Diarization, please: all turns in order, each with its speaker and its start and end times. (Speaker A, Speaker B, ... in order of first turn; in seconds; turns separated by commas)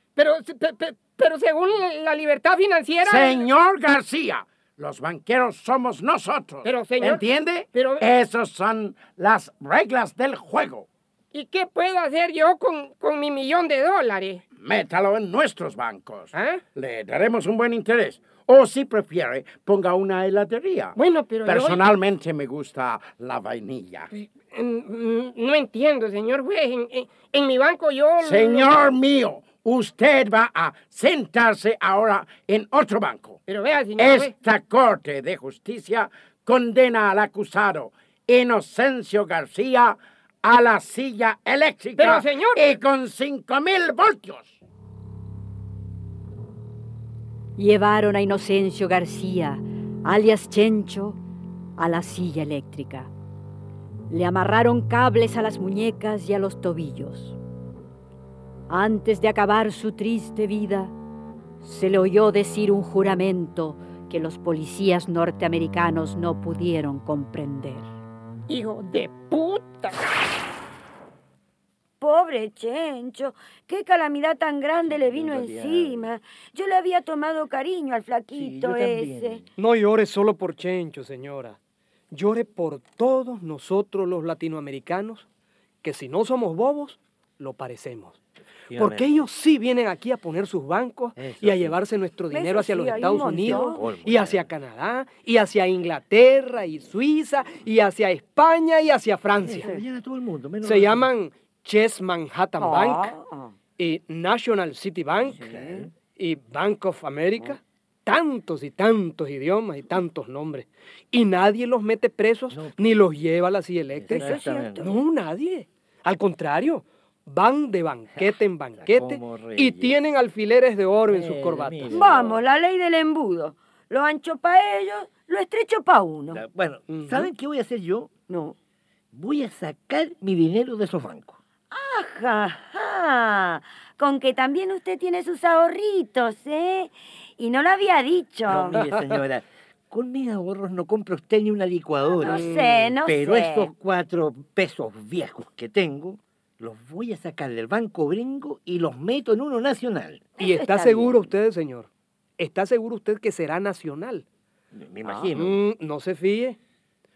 Speaker A: 0.1-3.5, Speaker B: 3.0-10.9, Speaker A: 6.6-8.1, Speaker A: 11.3-14.4, Speaker B: 14.6-24.1, Speaker A: 16.3-16.6, Speaker A: 20.9-21.8, Speaker A: 24.1-28.7, Speaker B: 28.2-33.4, Speaker A: 33.5-34.3, Speaker B: 34.0-44.6, Speaker A: 42.0-42.6, Speaker C: 47.6-51.2, Speaker C: 51.8-53.1, Speaker C: 54.1-57.4, Speaker C: 58.7-60.9, Speaker C: 61.6-67.9, Speaker A: 68.5-70.0, Speaker D: 72.0-79.4, Speaker E: 74.8-76.1, Speaker E: 78.3-79.5, Speaker F: 79.6-81.6, Speaker F: 82.1-85.2, Speaker F: 85.8-88.2, Speaker E: 88.7-89.3, Speaker F: 88.7-99.7, Speaker E: 91.2-91.8, Speaker D: 92.3-94.0, Speaker E: 92.9-94.5, Speaker E: 99.3-101.1, Speaker D: 99.5-99.8, Speaker F: 100.6-103.1, Speaker D: 102.6-103.5, Speaker F: 103.8-105.4, Speaker E: 105.2-105.9, Speaker D: 105.4-105.8, Speaker F: 106.1-114.3, Speaker E: 112.5-112.8, Speaker E: 113.9-115.0, Speaker D: 114.1-115.0, Speaker F: 114.8-121.9, Speaker E: 118.2-120.0, Speaker E: 121.1-122.4, Speaker D: 121.9-126.4, Speaker E: 126.3-128.1, Speaker F: 126.9-127.3, Speaker D: 128.3-128.5, Speaker E: 129.1-131.4, Speaker D: 131.7-138.9, Speaker E: 138.4-150.3, Speaker D: 142.2-143.7, Speaker F: 142.3-142.8, Speaker D: 150.4-151.3, Speaker F: 150.4-154.2, Speaker E: 154.7-155.6, Speaker D: 155.0-155.4, Speaker F: 155.3-156.6